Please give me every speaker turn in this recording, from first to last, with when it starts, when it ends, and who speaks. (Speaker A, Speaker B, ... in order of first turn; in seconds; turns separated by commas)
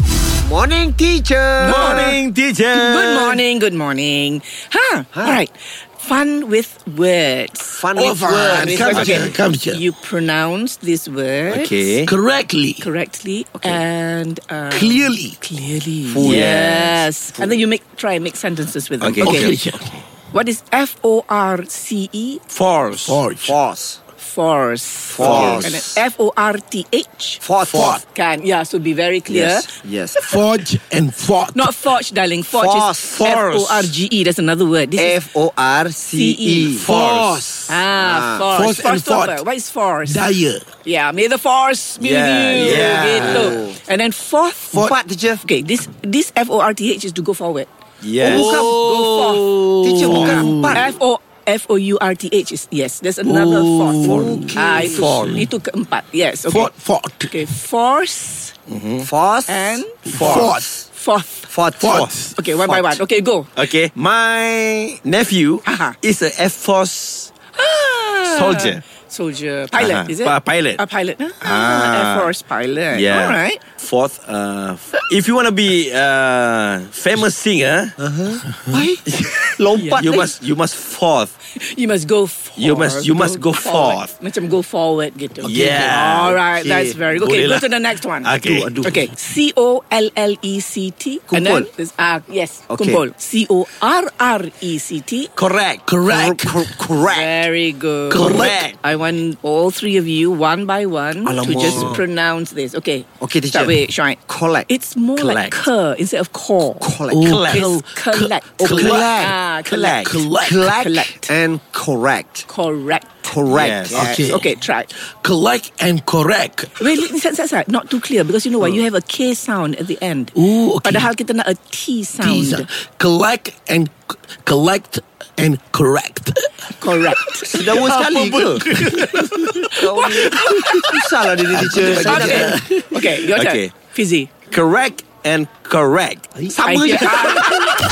Speaker A: 0.4-2.2, Speaker B: 1.6-2.2, Speaker C: 1.6-3.4, Speaker B: 2.7-11.9, Speaker A: 5.1-5.4, Speaker A: 7.7-9.3, Speaker D: 7.9-9.8, Speaker C: 8.8-9.3, Speaker C: 11.5-12.1, Speaker D: 12.0-12.9, Speaker B: 12.8-19.5, Speaker D: 14.7-15.4, Speaker A: 16.1-16.6, Speaker C: 16.2-17.1, Speaker C: 19.0-19.6, Speaker D: 19.2-20.0, Speaker B: 20.3-22.4, Speaker C: 22.5-23.2, Speaker D: 23.1-23.6, Speaker A: 23.4-24.0, Speaker B: 24.2-27.4, Speaker A: 25.1-25.7, Speaker C: 25.2-25.8, Speaker A: 27.4-28.0, Speaker C: 27.6-28.0, Speaker B: 28.1-30.2, Speaker A: 29.3-30.2, Speaker D: 30.2-31.8, Speaker B: 31.5-35.2, Speaker A: 32.5-33.2, Speaker C: 33.0-33.9, Speaker A: 35.0-38.5, Speaker B: 36.1-36.9, Speaker C: 36.8-37.5, Speaker D: 37.0-37.4, Speaker B: 37.7-47.7, Speaker D: 38.5-39.4, Speaker D: 40.0-40.6, Speaker C: 42.0-43.6, Speaker A: 42.6-43.8, Speaker A: 44.7-45.4, Speaker C: 48.0-50.6, Speaker A: 48.2-50.9, Speaker B: 48.2-49.5, Speaker B: 50.1-56.7, Speaker D: 50.2-50.8, Speaker D: 53.2-54.9, Speaker A: 54.0-55.2, Speaker C: 54.9-55.4, Speaker D: 56.5-57.5, Speaker B: 57.3-58.5, Speaker C: 58.7-59.1, Speaker A: 59.0-60.9, Speaker B: 59.5-60.0, Speaker D: 60.0-60.7, Speaker C: 60.1-60.5, Speaker B: 60.9-61.5, Speaker A: 61.5-62.0, Speaker D: 61.8-62.3, Speaker C: 61.8-62.2, Speaker B: 62.3-63.5, Speaker A: 62.6-63.0, Speaker C: 63.5-64.0, Speaker A: 63.9-65.0, Speaker C: 65.0-67.3, Speaker B: 65.6-66.0, Speaker B: 67.5-73.6, Speaker C: 68.2-68.8, Speaker C: 69.7-70.8, Speaker C: 71.4-72.3, Speaker C: 72.9-78.0, Speaker A: 78.0-80.3, Speaker C: 79.0-81.3, Speaker B: 79.8-80.3, Speaker B: 81.5-95.3, Speaker C: 82.6-84.1, Speaker C: 85.4-87.7, Speaker D: 85.5-85.9, Speaker C: 88.2-88.8, Speaker A: 88.4-89.0, Speaker A: 91.3-91.7, Speaker A: 92.7-93.0, Speaker C: 95.3-95.9, Speaker D: 95.8-96.7, Speaker A: 96.0-97.4, Speaker B: 97.0-106.9, Speaker D: 98.1-98.6, Speaker C: 98.2-98.8, Speaker A: 101.2-102.0, Speaker A: 103.2-104.7, Speaker C: 105.2-105.6, Speaker A: 106.8-107.5, Speaker D: 107.1-109.3, Speaker B: 107.5-111.3, Speaker A: 108.6-112.5, Speaker C: 109.7-109.9, Speaker D: 110.0-110.7, Speaker B: 112.5-113.4, Speaker A: 113.2-114.2, Speaker C: 113.5-114.0, Speaker B: 113.9-114.9, Speaker D: 113.9-114.5, Speaker D: 115.2-116.7, Speaker B: 116.8-122.7, Speaker D: 120.3-121.1, Speaker D: 122.2-126.5, Speaker B: 126.8-127.6, Speaker D: 127.0-130.9, Speaker A: 127.5-128.7, Speaker C: 128.1-129.3, Speaker B: 129.1-131.0, Speaker A: 129.8-132.6, Speaker C: 131.5-133.8, Speaker B: 131.9-134.3, Speaker C: 134.5-137.7, Speaker B: 136.6-137.8